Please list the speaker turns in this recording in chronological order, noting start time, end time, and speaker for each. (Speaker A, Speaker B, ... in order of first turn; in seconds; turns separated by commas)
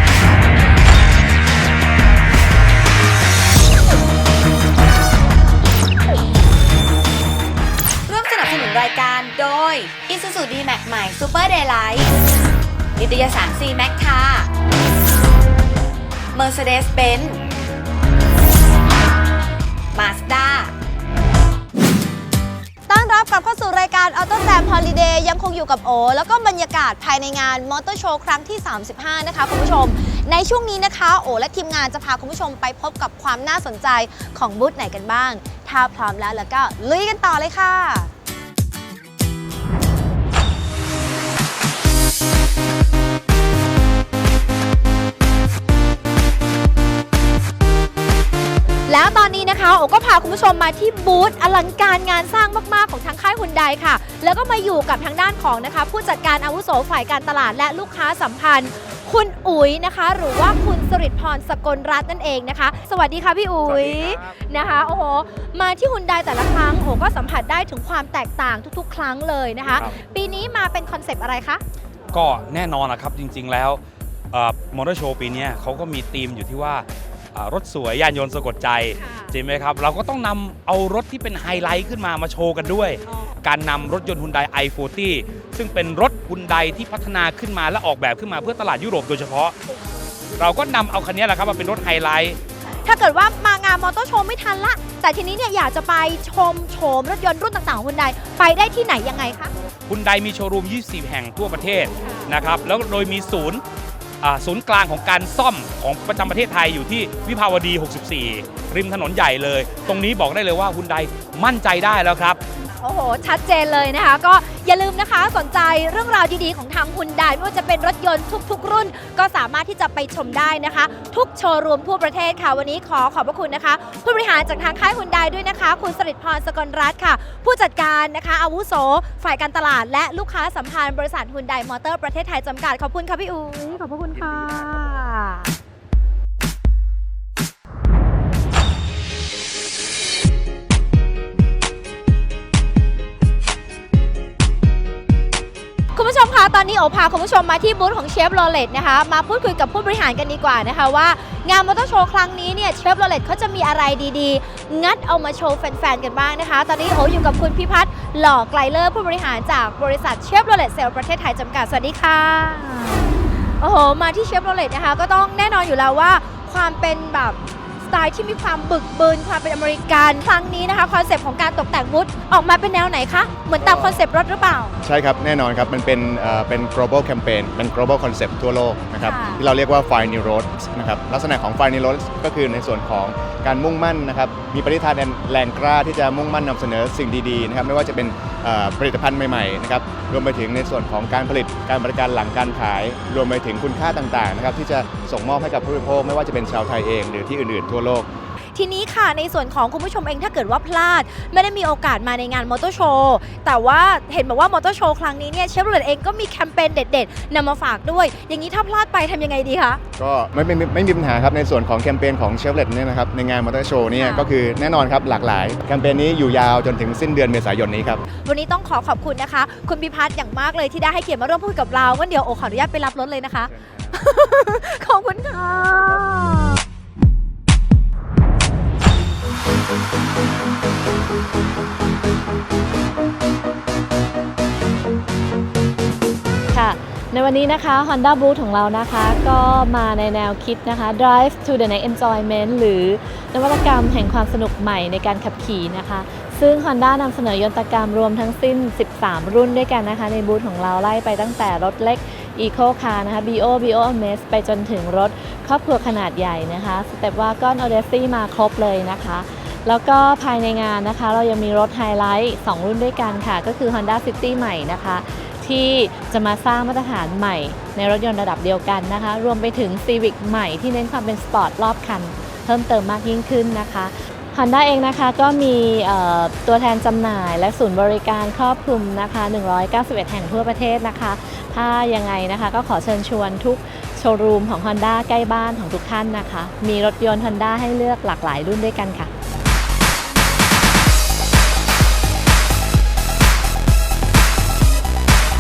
Speaker A: 8.1-12.2, Speaker A: 13.0-14.5, Speaker A: 16.3-17.4, Speaker A: 19.9-20.7, Speaker B: 22.9-38.1, Speaker B: 48.9-71.6, Speaker C: 63.6-64.4, Speaker C: 72.1-89.5, Speaker B: 79.0-79.3, Speaker C: 90.4-92.4, Speaker B: 92.8-99.5, Speaker C: 99.9-103.6, Speaker B: 102.0-102.3, Speaker C: 104.2-112.4, Speaker B: 112.7-135.5, Speaker B: 145.9-174.8, Speaker D: 173.6-174.0, Speaker D: 174.8-198.1, Speaker B: 179.0-179.4, Speaker B: 198.5-209.8, Speaker D: 210.0-218.0, Speaker B: 213.9-214.3, Speaker B: 218.2-226.4, Speaker E: 236.5-289.1